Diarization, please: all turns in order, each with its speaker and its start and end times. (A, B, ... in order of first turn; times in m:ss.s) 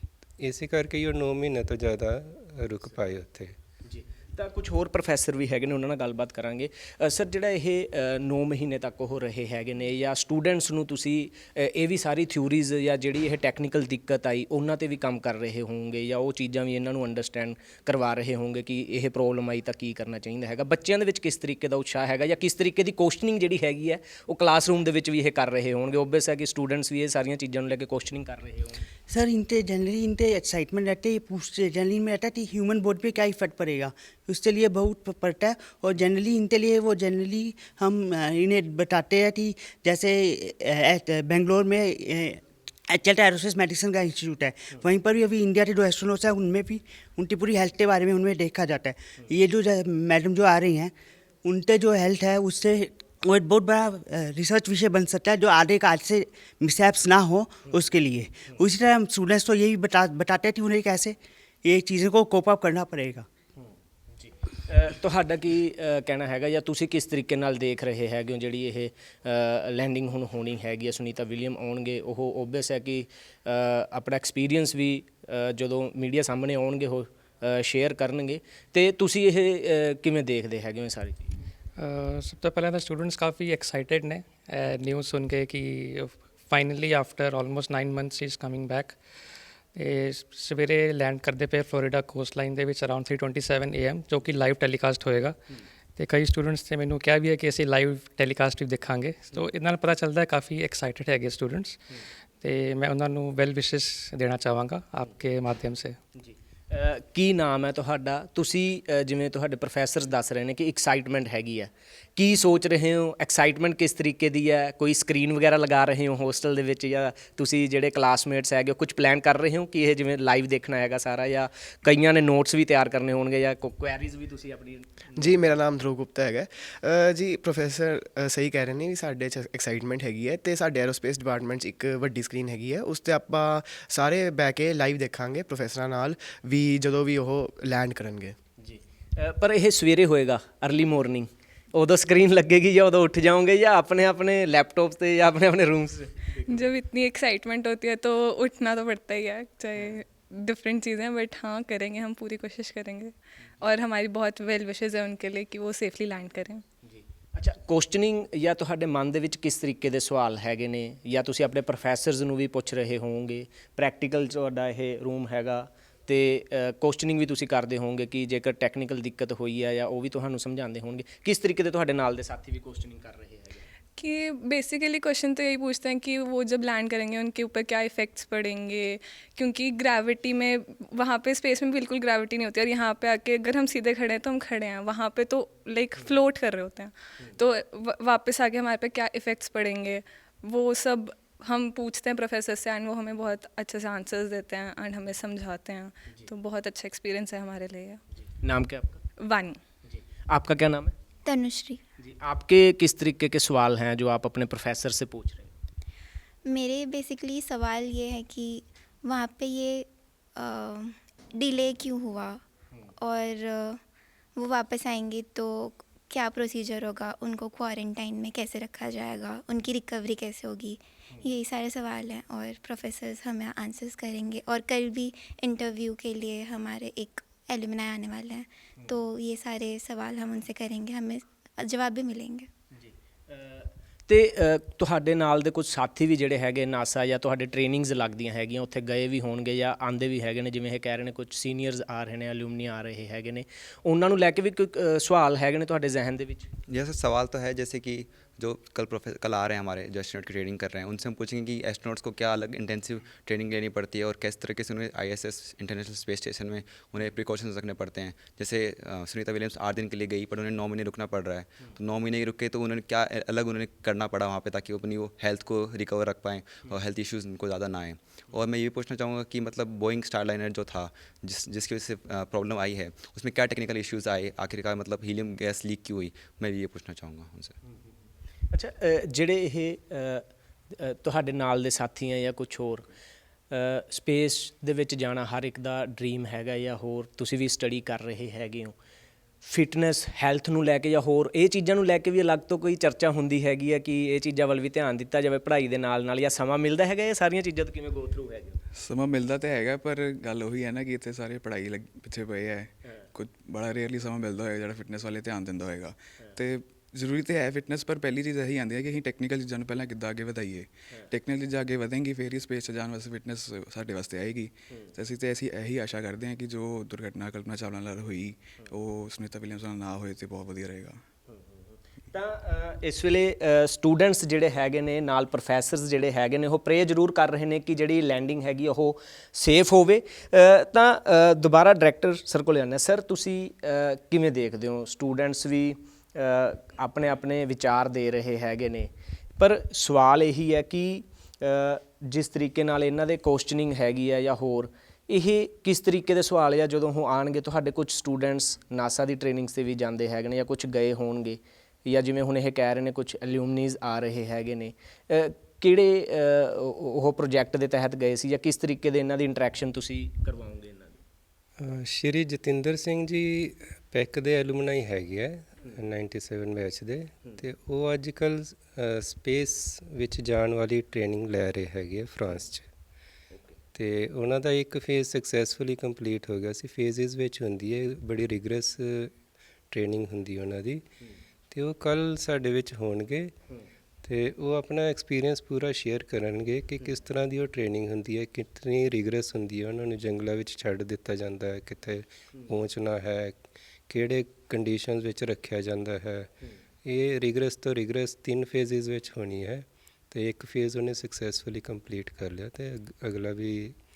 0:00.4-0:03.6 A
0:03.9-0:28.8 B
0:29.1-0:50.9 C
0:51.4-1:03.3 C
1:04.2-1:21.3 B
1:21.8-1:29.0 D
1:29.8-1:35.4 D
1:36.0-1:41.8 D
1:42.4-1:46.0 D
1:46.2-2:05.4 B
2:05.2-2:18.4 E
2:18.6-2:26.7 B
2:26.5-2:36.6 F
2:29.8-2:30.0 B
2:36.9-2:53.6 B
2:54.0-3:18.0 F
3:18.2-3:19.0 B
3:19.2-3:19.6 F
3:19.9-3:20.9 B
3:21.3-3:21.8 G
3:22.0-3:25.5 B
3:26.5-3:32.4 G
3:33.0-3:33.8 G
3:34.4-3:52.5 G
3:52.8-4:06.5 B
4:06.7-4:37.6 H
4:38.5-4:42.9 B
4:43.5-4:48.8 B
4:49.4-4:58.6 B
4:58.8-5:21.0 I
5:22.1-6:01.0 B
6:01.6-6:12.7 A
6:13.8-6:19.1 A
6:19.7-6:20.8 A
6:21.5-6:23.3 A
6:24.0-6:33.4 A
6:33.9-6:36.3 A
6:36.8-6:43.8 A